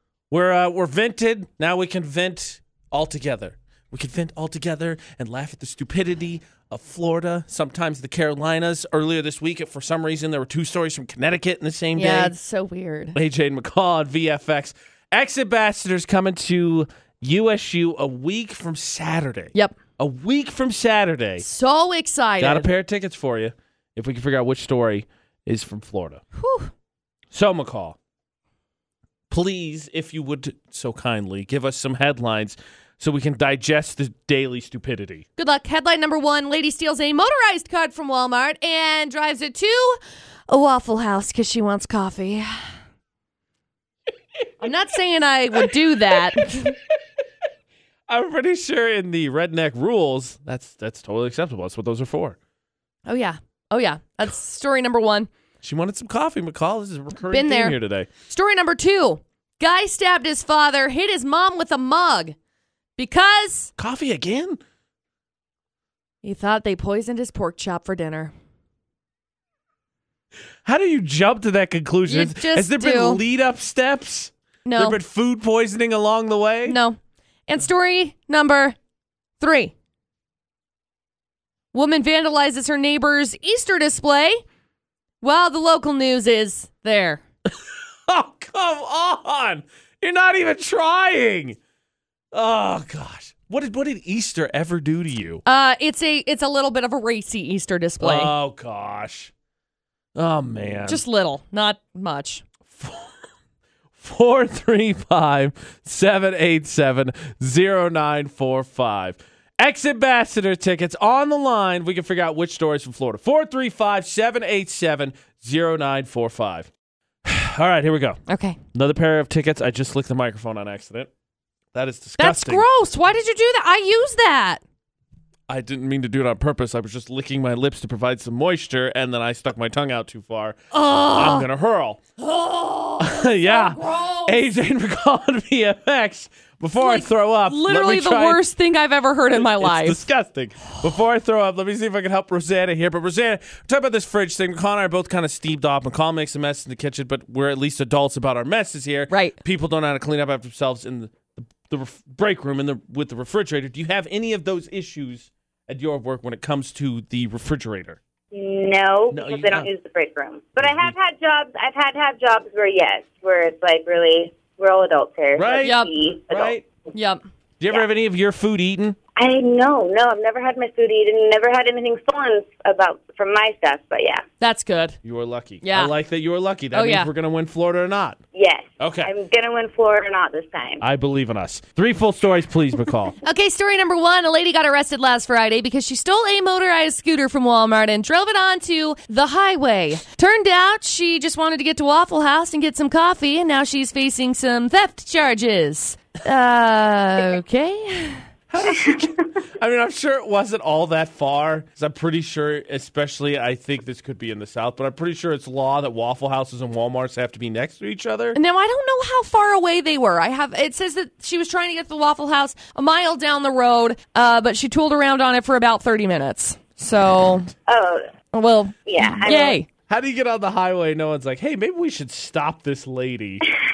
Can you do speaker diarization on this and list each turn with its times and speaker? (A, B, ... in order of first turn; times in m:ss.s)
0:00.3-0:12.3 A
0:12.0-0:13.2 B
0:13.1-0:21.4 A
0:21.4-0:22.7 B
0:22.4-0:26.2 A
0:26.4-0:26.7 B
0:27.3-0:28.0 A
0:29.3-0:35.2 A
0:35.4-0:42.5 B
0:44.6-0:46.8 B
0:46.1-0:46.6 A
0:48.1-0:52.4 A
0:53.0-0:55.3 B
0:55.6-0:58.1 A
0:57.3-1:02.3 B
1:03.0-1:03.7 B
1:03.8-1:04.6 A
1:06.2-1:08.3 B
1:10.6-1:16.8 A
1:12.1-1:13.2 B
1:14.6-1:15.0 B
1:16.7-1:18.8 B
1:19.4-1:19.7 B
1:21.7-1:24.4 B
1:25.2-1:27.2 B
1:28.1-1:31.6 A
1:32.3-1:35.4 A
1:35.4-1:38.3 B
1:38.0-1:39.3 A
1:40.2-1:41.0 A
1:40.9-1:42.4 B
1:42.7-1:43.1 A
1:44.0-1:56.7 A
1:57.2-1:58.2 A
1:58.3-1:58.6 B
1:58.7-2:01.1 A
2:01.7-2:02.6 A
2:02.2-2:04.6 B
2:05.5-2:12.0 A
2:10.7-2:11.5 B
2:12.2-2:14.3 B
2:13.0-2:18.4 A
2:16.8-2:20.0 B
2:19.3-2:38.0 A
2:29.1-2:29.4 B
2:38.3-2:46.6 C
2:39.1-2:39.7 A
2:40.6-2:40.9 A
2:45.4-2:45.8 A
2:45.6-2:45.9 B
2:46.3-2:46.6 A
2:46.9-2:47.2 B
2:47.6-2:49.0 A
2:49.2-2:54.2 C
2:54.4-2:55.0 B
2:55.0-2:58.2 A
2:55.6-2:55.9 B
2:56.7-2:57.1 B
2:58.3-3:00.8 C
2:58.8-2:59.1 A
3:00.8-3:03.2 A
3:03.2-3:18.2 B
3:18.5-3:28.4 A
3:28.3-3:37.5 B
3:37.7-3:38.0 C
3:38.3-3:39.7 B
3:38.8-3:39.6 C
3:39.9-3:43.5 A